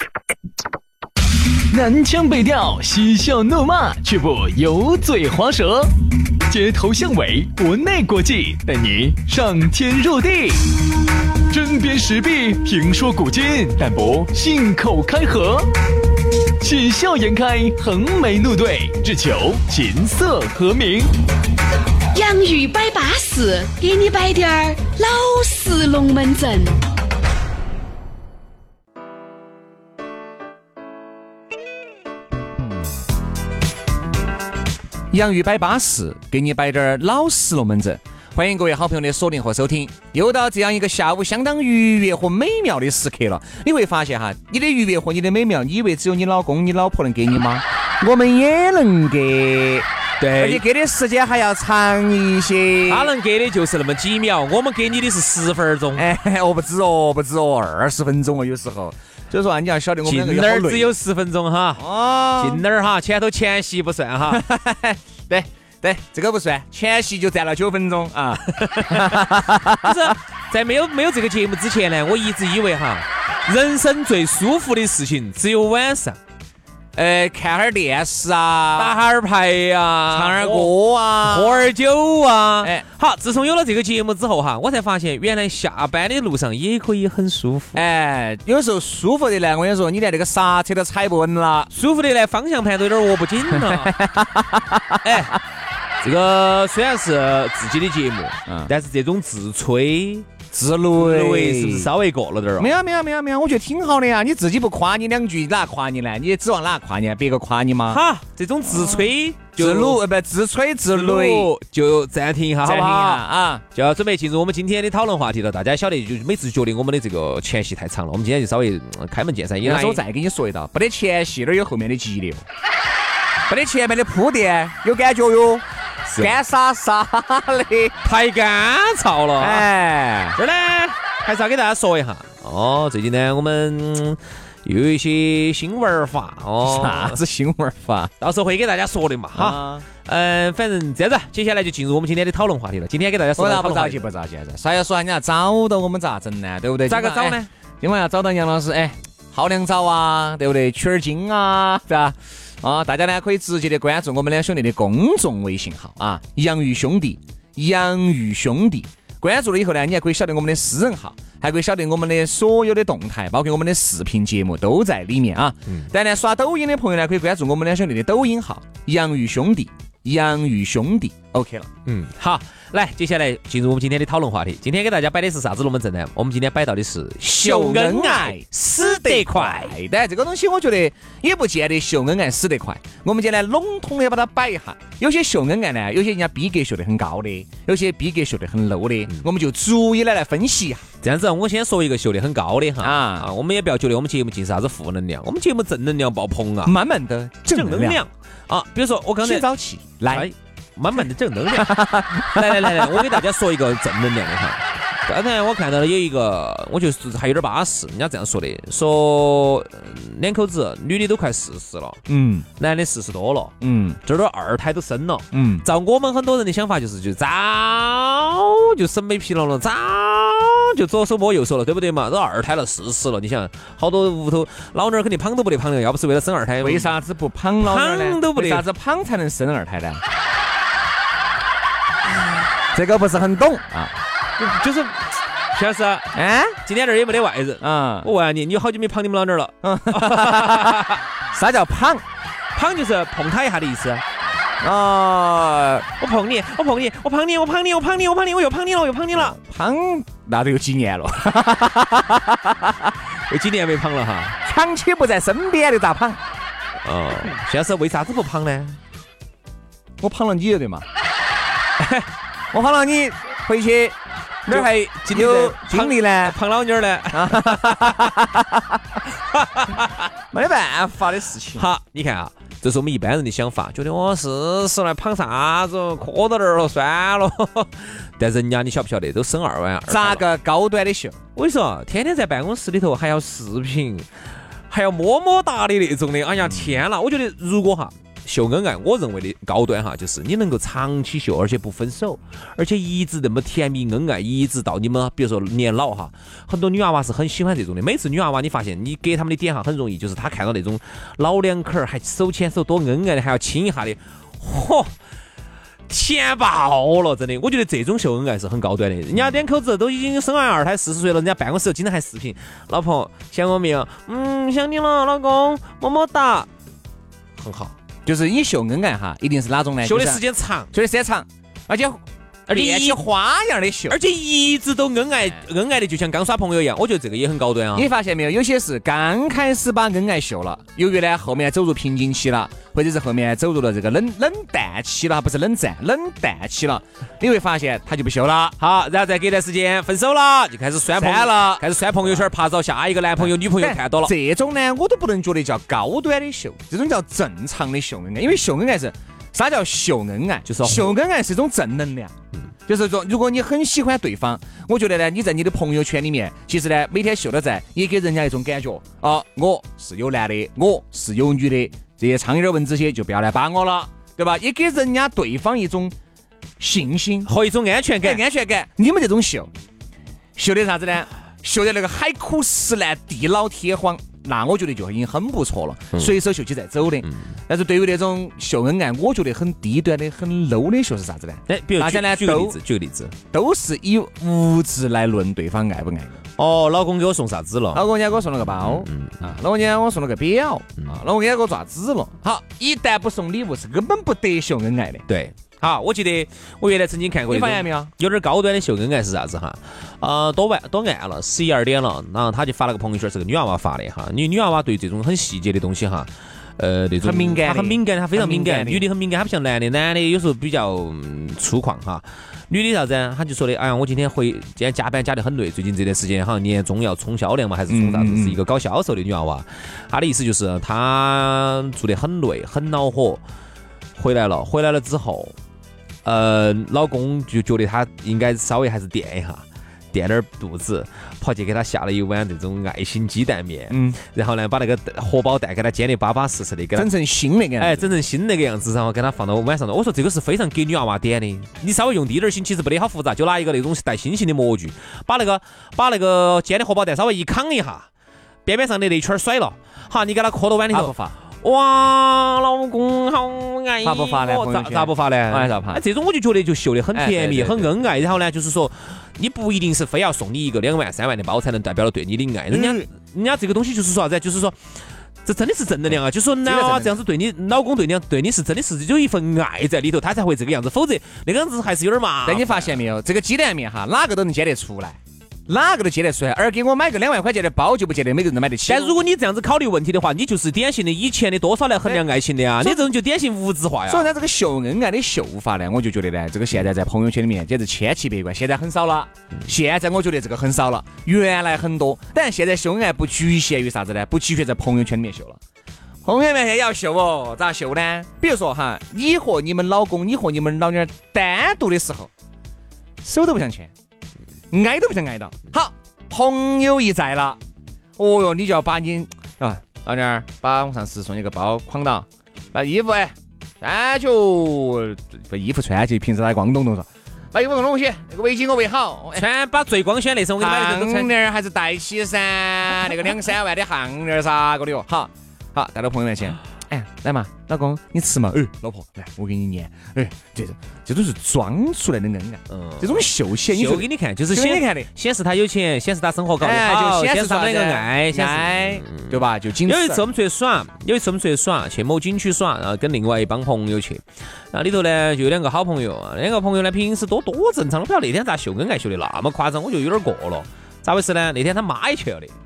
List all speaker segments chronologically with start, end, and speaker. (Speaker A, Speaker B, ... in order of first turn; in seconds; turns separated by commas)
Speaker A: 1.7-10.8, Speaker A: 11.5-15.7, Speaker A: 16.6-21.1, Speaker B: 22.1-26.8, Speaker C: 35.1-53.1, Speaker D: 50.2-50.6, Speaker D: 52.9-56.0, Speaker C: 55.9-60.9, Speaker D: 60.0-64.4, Speaker C: 61.8-62.6, Speaker C: 64.3-70.0, Speaker D: 68.5-76.2, Speaker C: 76.9-78.9, Speaker D: 78.8-87.8, Speaker C: 80.1-81.7, Speaker C: 87.7-91.7, Speaker D: 91.7-94.0, Speaker C: 93.6-95.2, Speaker D: 95.0-95.4, Speaker D: 96.0-100.3, Speaker C: 98.5-98.7, Speaker C: 100.5-101.9, Speaker D: 101.0-102.7, Speaker C: 102.6-108.0, Speaker D: 107.9-110.0, Speaker C: 108.7-109.0, Speaker C: 109.6-111.5, Speaker D: 110.9-120.0, Speaker C: 112.6-113.6, Speaker C: 119.6-122.4, Speaker C: 123.5-127.9, Speaker D: 126.1-126.3, Speaker D: 128.0-129.7, Speaker C: 129.4-130.4, Speaker D: 130.3-137.2, Speaker C: 136.6-138.1, Speaker D: 138.2-144.1, Speaker C: 139.3-139.8, Speaker C: 143.4-171.7, Speaker D: 146.9-147.4, Speaker D: 171.8-179.8, Speaker C: 177.2-190.8, Speaker D: 191.0-196.7, Speaker C: 192.8-193.3, Speaker C: 196.6-198.0, Speaker D: 197.5-199.5, Speaker C: 199.2-200.3, Speaker D: 200.1-212.0, Speaker C: 201.5-203.2, Speaker C: 212.1-212.4, Speaker D: 212.6-226.9, Speaker C: 213.6-214.0, Speaker C: 215.3-215.7, Speaker C: 226.6-230.0, Speaker D: 227.6-228.6, Speaker C: 232.7-233.9, Speaker D: 234.4-236.1, Speaker C: 236.1-236.6, Speaker D: 236.6-241.0, Speaker C: 237.6-238.1, Speaker C: 239.6-242.0, Speaker D: 242.5-244.0, Speaker C: 244.6-245.8, Speaker D: 246.0-249.4, Speaker C: 249.1-252.9, Speaker D: 253.3-254.4, Speaker C: 254.4-256.2, Speaker D: 256.8-258.8, Speaker C: 260.0-260.8, Speaker C: 262.5-263.9, Speaker C: 264.4-266.4, Speaker D: 264.5-268.2, Speaker C: 267.1-268.8, Speaker D: 269.3-269.9, Speaker C: 270.3-271.7, Speaker D: 271.5-280.2, Speaker C: 279.9-281.2, Speaker D: 281.3-284.1, Speaker D: 284.7-304.9, Speaker D: 305.9-316.5, Speaker D: 317.4-317.7, Speaker C: 318.1-324.0, Speaker D: 319.8-320.7, Speaker D: 322.5-323.0, Speaker D: 323.9-327.9, Speaker C: 327.7-338.6, Speaker D: 338.6-344.1, Speaker C: 341.0-342.2, Speaker C: 343.2-352.1, Speaker D: 350.4-350.9, Speaker C: 352.7-365.9, Speaker C: 366.6-367.3, Speaker D: 367.2-368.2, Speaker C: 368.0-369.5, Speaker C: 370.4-382.6, Speaker D: 381.5-383.1, Speaker C: 383.3-386.2, Speaker D: 386.4-387.8, Speaker C: 387.7-395.0, Speaker D: 388.5-389.3, Speaker D: 395.1-423.2, Speaker C: 397.3-397.9, Speaker C: 407.0-408.9, Speaker C: 417.7-418.4, Speaker D: 424.0-425.3, Speaker D: 426.0-436.9, Speaker C: 433.7-434.0, Speaker C: 436.7-437.9, Speaker D: 437.6-447.9, Speaker D: 448.4-464.6, Speaker C: 450.7-451.1, Speaker C: 453.8-455.8, Speaker C: 456.9-457.7, Speaker C: 462.5-462.9, Speaker D: 465.2-472.8, Speaker C: 466.4-467.0, Speaker C: 472.2-478.9, Speaker D: 478.6-484.1, Speaker C: 483.9-495.4, Speaker C: 496.0-502.1, Speaker C: 503.0-503.7, Speaker C: 504.5-507.4, Speaker C: 508.0-519.2, Speaker D: 519.1-521.1, Speaker C: 520.4-534.9, Speaker D: 532.5-552.3, Speaker C: 536.4-540.0